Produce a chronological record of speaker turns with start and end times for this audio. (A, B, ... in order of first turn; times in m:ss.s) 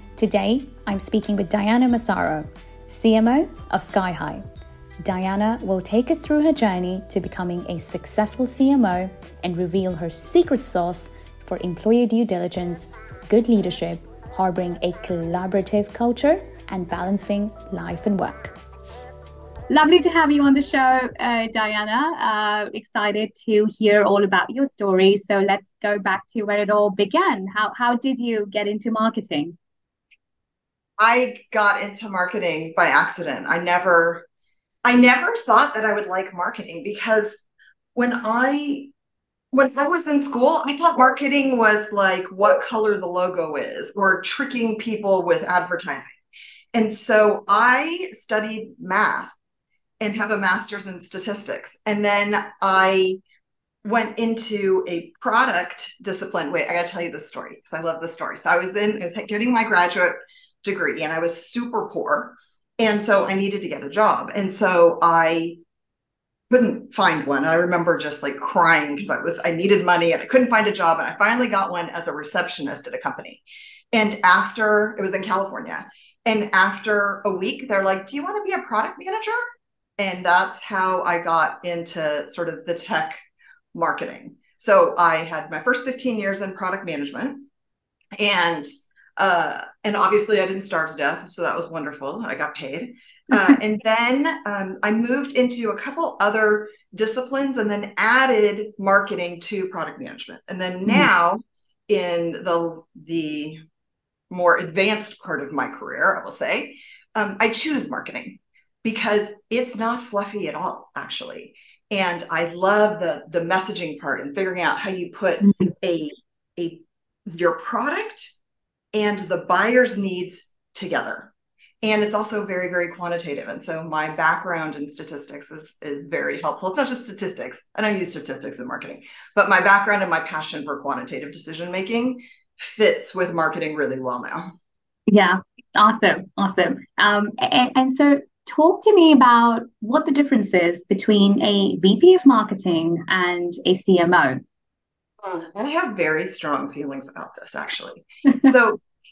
0:00.2-0:04.4 A
0:05.0-0:18.6 A
0:19.7-0:29.6 A
0:31.0-0:34.3 B
0:34.8-0:37.4 B
0:38.0-0:38.9 B
0:39.5-0:46.2 B
0:46.7-0:49.4 B
0:50.0-0:53.2 B
0:53.8-1:05.6 B
1:06.5-1:19.4 B
1:20.0-1:23.2 B
1:23.7-1:27.4 B
1:28.2-1:43.6 B
1:44.3-1:58.3 B
1:55.4-1:55.7 A
1:58.9-2:01.3 B
2:01.8-2:14.5 B
2:15.1-2:24.4 A
2:25.2-2:28.8 B